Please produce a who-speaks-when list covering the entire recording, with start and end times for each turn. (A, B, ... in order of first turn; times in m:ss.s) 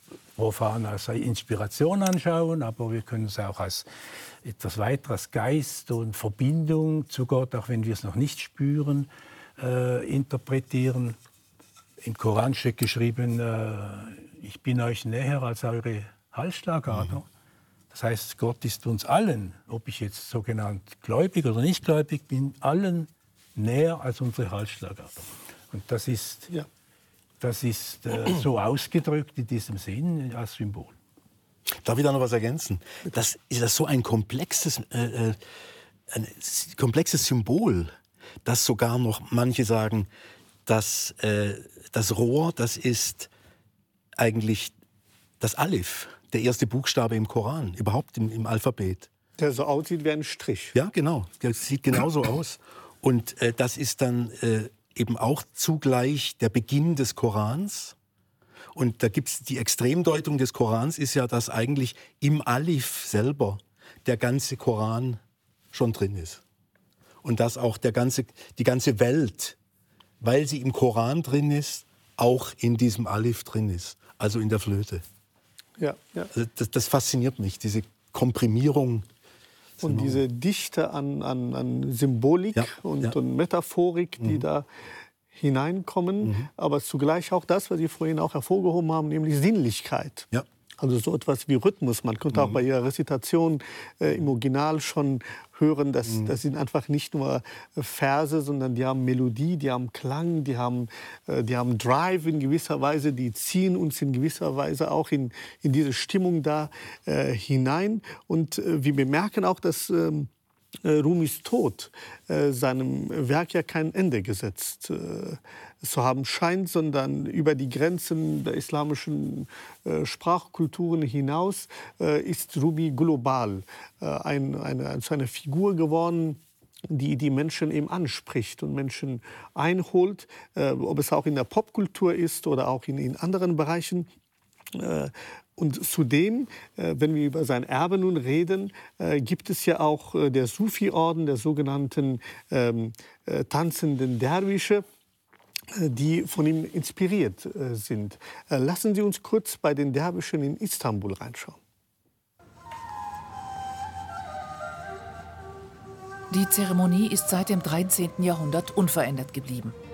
0:00.4-0:03.9 A
0:04.4-0:11.2 A
0:12.0-0:17.3 A
0:17.9-0:26.5 A
0:27.4-0:31.0 A
0:31.7-0:35.4 B
0:36.1-0:37.9 B
0:38.4-0:40.1 B
0:40.7-0:43.3 B
0:44.2-0:44.7 B
0:45.4-0:49.1 B
0:49.4-0:50.8 C
0:50.7-0:58.0 B
0:58.8-1:05.2 B
1:05.7-1:06.4 B
1:07.2-1:09.6 B
1:10.2-1:15.0 B
1:15.8-1:16.3 C
1:16.3-1:19.1 B
1:19.8-1:20.2 B
1:19.8-1:24.7 C
1:22.6-1:23.2 B
1:25.3-1:50.3 C
1:26.2-1:26.5 B
1:50.8-2:06.4 C
2:06.9-2:14.1 C
2:14.7-2:24.8 C
2:25.7-2:31.6 C
2:36.3-2:39.8 D